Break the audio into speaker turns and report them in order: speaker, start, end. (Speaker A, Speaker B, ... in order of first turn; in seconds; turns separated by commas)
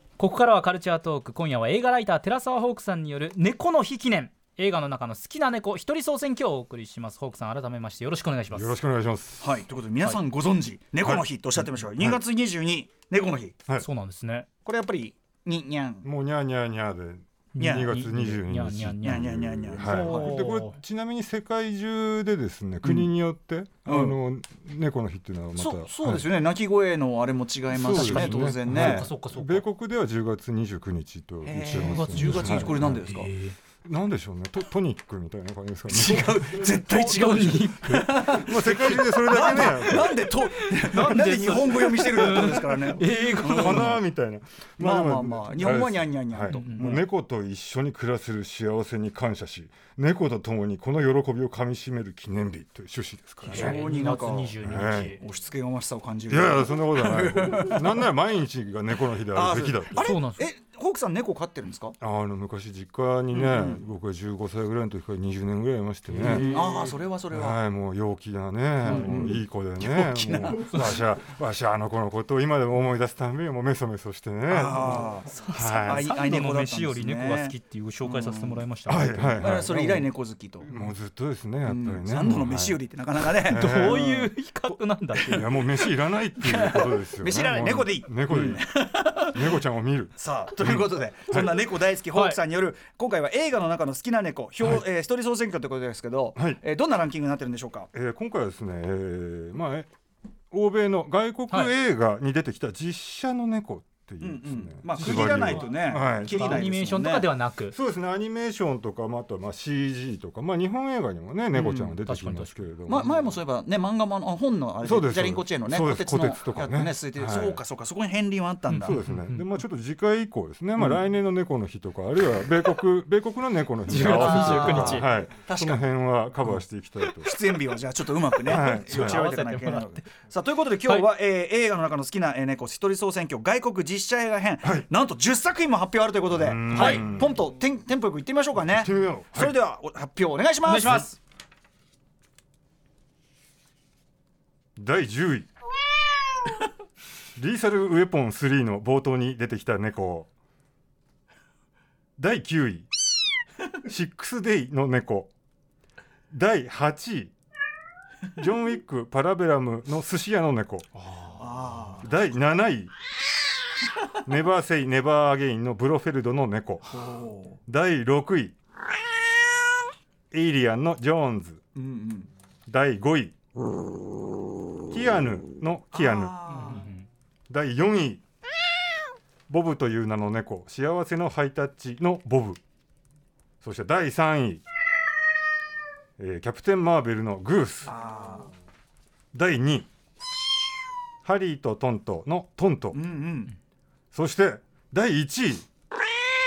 Speaker A: 0.2-8.8, Speaker B: 8.5-9.6, Speaker C: 9.4-13.5, Speaker B: 11.0-12.2, Speaker A: 13.8-14.5, Speaker C: 14.6-16.1, Speaker B: 16.0-26.2, Speaker A: 17.5-20.8, Speaker C: 17.6-17.9, Speaker C: 19.0-20.4, Speaker C: 23.9-24.2, Speaker C: 25.6-29.1, Speaker B: 27.7-33.0, Speaker A: 27.8-29.6, Speaker C: 31.4-33.3, Speaker A: 31.7-33.5, Speaker B: 33.8-36.5, Speaker C: 35.9-43.9, Speaker A: 36.6-38.4, Speaker B: 38.2-40.3, Speaker A: 39.2-44.0, Speaker B: 43.4-53.9, Speaker C: 44.8-47.0, Speaker A: 46.5-47.0, Speaker C: 53.5-58.0, Speaker A: 53.5-55.2, Speaker B: 54.6-55.2, Speaker B: 56.3-60.1, Speaker C: 59.2-62.0, Speaker A: 60.0-60.5, Speaker B: 62.0-66.5, Speaker C: 63.3-63.8, Speaker A: 66.1-66.9, Speaker C: 66.2-67.6, Speaker B: 67.3-76.1, Speaker C: 68.8-70.9, Speaker A: 68.9-69.2, Speaker A: 70.7-71.0, Speaker C: 74.5-78.7, Speaker A: 75.3-79.4, Speaker B: 78.8-80.1, Speaker C: 79.3-80.7, Speaker B: 80.6-82.8, Speaker C: 81.6-84.3, Speaker B: 83.4-84.0, Speaker A: 83.4-85.5, Speaker C: 85.1-89.4, Speaker B: 85.3-88.7, Speaker B: 89.2-91.6, Speaker C: 90.2-97.9, Speaker A: 92.1-92.4, Speaker B: 96.3-96.6, Speaker B: 97.9-99.9, Speaker B: 100.5-106.6, Speaker C: 104.2-107.3, Speaker A: 105.0-107.7, Speaker B: 107.7-113.4, Speaker C: 111.5-112.0, Speaker A: 112.0-112.6, Speaker C: 112.8-119.0, Speaker B: 114.8-117.6, Speaker A: 118.7-119.5, Speaker B: 118.8-127.4, Speaker A: 123.9-125.0, Speaker C: 123.9-125.8, Speaker C: 127.0-141.1, Speaker B: 128.4-129.2, Speaker A: 128.5-130.0, Speaker B: 136.3-137.4, Speaker A: 136.7-137.1, Speaker B: 138.6-139.6, Speaker A: 140.6-141.1, Speaker B: 144.8-145.5, Speaker B: 147.4-150.3, Speaker B: 152.2-152.9, Speaker B: 153.8-155.3, Speaker B: 156.3-157.3, Speaker B: 158.3-160.9, Speaker C: 161.3-162.1, Speaker B: 162.0-162.9, Speaker B: 164.2-167.0, Speaker C: 166.9-167.6, Speaker B: 167.7-168.5, Speaker B: 170.3-171.6, Speaker C: 171.7-172.3, Speaker B: 172.7-173.3, Speaker B: 174.9-176.4, Speaker C: 175.9-176.9, Speaker A: 176.5-177.1, Speaker B: 177.5-178.2, Speaker B: 179.5-182.6, Speaker B: 183.6-184.6, Speaker B: 186.2-187.9, Speaker C: 187.8-188.5, Speaker B: 189.3-189.9, Speaker B: 191.2-193.0, Speaker C: 192.9-193.5, Speaker B: 194.1-195.7